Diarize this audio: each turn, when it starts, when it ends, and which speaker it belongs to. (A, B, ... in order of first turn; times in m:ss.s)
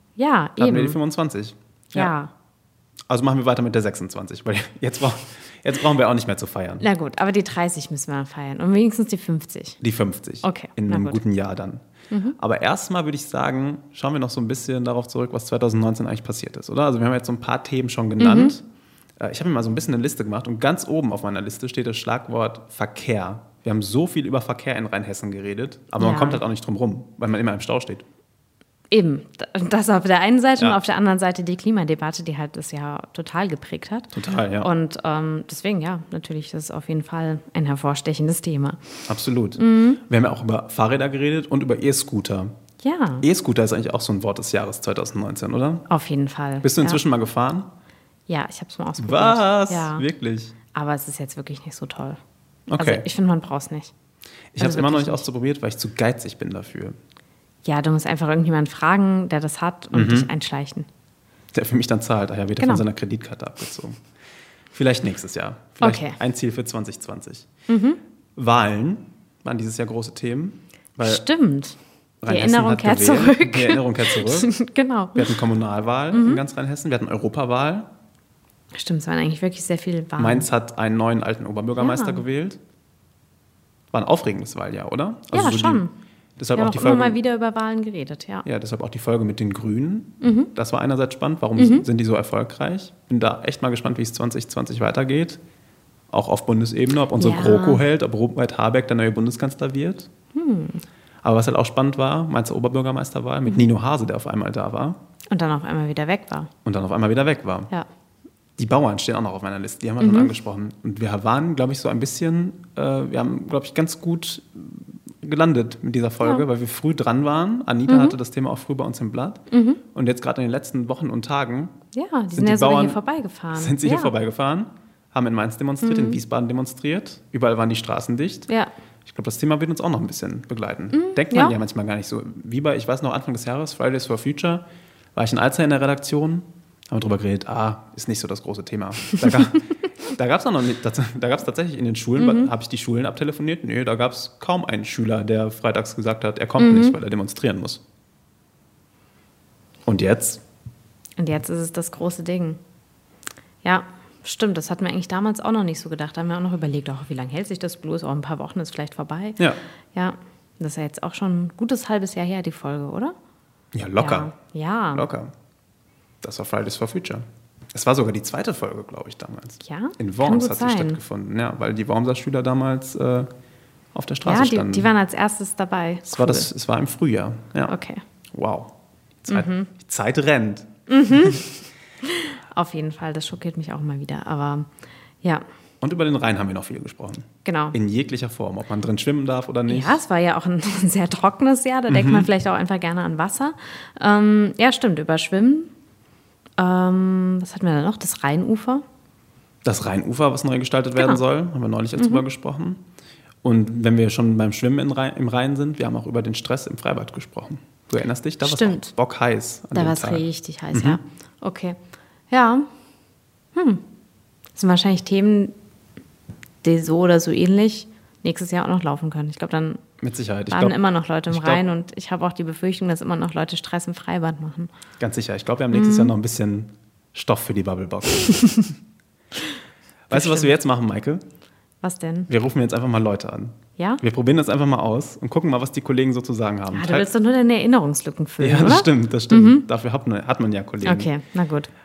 0:00.2-0:01.0 A
0:00.6-0:02.1 B
0:01.9-0:02.3 A
0:03.1-0:06.8 B
0:06.8-0:09.8 A
0:09.8-0:11.8 B
0:10.4-0:11.2 A
0:12.1-0:12.4 A
0:12.4-0:18.6 B
0:18.2-0:18.5 A
0:19.2-0:28.0 B
0:26.0-0:26.4 A
0:28.9-0:38.8 A
0:34.1-0:34.7 B
0:39.1-0:42.5 B
0:39.6-0:40.0 A
0:42.8-0:43.3 A
0:43.2-0:45.8 B
0:45.9-0:47.0 A
0:46.6-0:47.7 B
0:48.3-0:50.0 A
0:49.0-0:50.6 B
0:50.7-0:52.2 A
0:52.7-0:53.0 B
0:52.8-0:53.9 A
0:54.5-0:57.0 B
0:54.6-0:55.3 A
0:57.6-1:00.9 A
0:59.9-1:00.3 B
1:01.5-1:04.0 B
1:02.6-1:02.8 A
1:04.7-1:07.5 B
1:05.8-1:06.2 A
1:07.7-1:08.0 A
1:08.4-1:11.3 B
1:11.0-1:15.4 A
1:12.2-1:14.5 B
1:15.2-1:17.9 B
1:16.1-1:16.4 A
1:18.7-1:20.5 A
1:20.2-1:22.6 B
1:21.8-1:22.2 A
1:23.9-1:25.8 B
1:25.3-1:25.9 A
1:26.4-1:27.2 B
1:26.6-1:28.5 A
1:28.4-1:35.4 B
1:30.2-1:30.5 A
1:31.6-1:31.8 A
1:36.1-1:40.1 B
1:37.2-1:37.8 A
1:40.4-1:40.8 A
1:41.2-1:45.0 B
1:45.3-1:46.5 A
1:46.6-1:47.7 B
1:48.6-1:59.4 B
1:50.0-1:50.3 A
1:57.9-1:58.2 A
1:59.5-1:59.8 A
1:59.9-2:01.8 B
2:01.9-2:04.1 A
2:02.3-2:03.0 B
2:03.5-2:08.5 B
2:05.8-2:06.2 A
2:09.0-2:27.8 B
2:10.9-2:11.6 A
2:22.2-2:22.5 A
2:26.6-2:27.0 A
2:29.9-2:30.4 B
2:31.2-2:32.6 A
2:33.6-2:39.4 A
2:39.9-2:43.2 A
2:43.7-2:44.3 B
2:44.0-2:45.0 A
2:44.9-2:45.3 B
2:46.2-2:53.3 B
2:49.6-2:51.0 A
2:53.9-2:54.9 B
2:54.3-2:56.5 A
2:56.1-2:57.7 B
2:57.7-2:58.0 A
2:58.3-2:58.7 B
2:59.2-3:01.4 B
2:59.3-2:59.7 A
3:00.9-3:01.5 A
3:02.1-3:04.7 A
3:05.8-3:10.0 B
3:07.4-3:07.8 A
3:09.7-3:15.7 A
3:11.9-3:12.3 B
3:16.6-3:18.8 A
3:19.6-3:22.8 B
3:22.0-3:22.2 A
3:23.4-3:31.0 B
3:28.4-3:28.9 A
3:29.8-3:31.8 A
3:32.3-3:32.7 A
3:33.6-3:33.8 A
3:34.6-3:35.5 A
3:36.6-3:39.8 A
3:40.0-3:41.6 B
3:40.5-3:44.7 A
3:45.0-3:48.7 B
3:45.7-3:46.1 A
3:50.1-3:51.2 B
3:50.1-3:50.5 A
3:51.8-3:52.3 A
3:52.3-3:57.1 B
3:56.7-3:59.6 A
3:58.4-4:01.1 B
4:00.8-4:01.7 A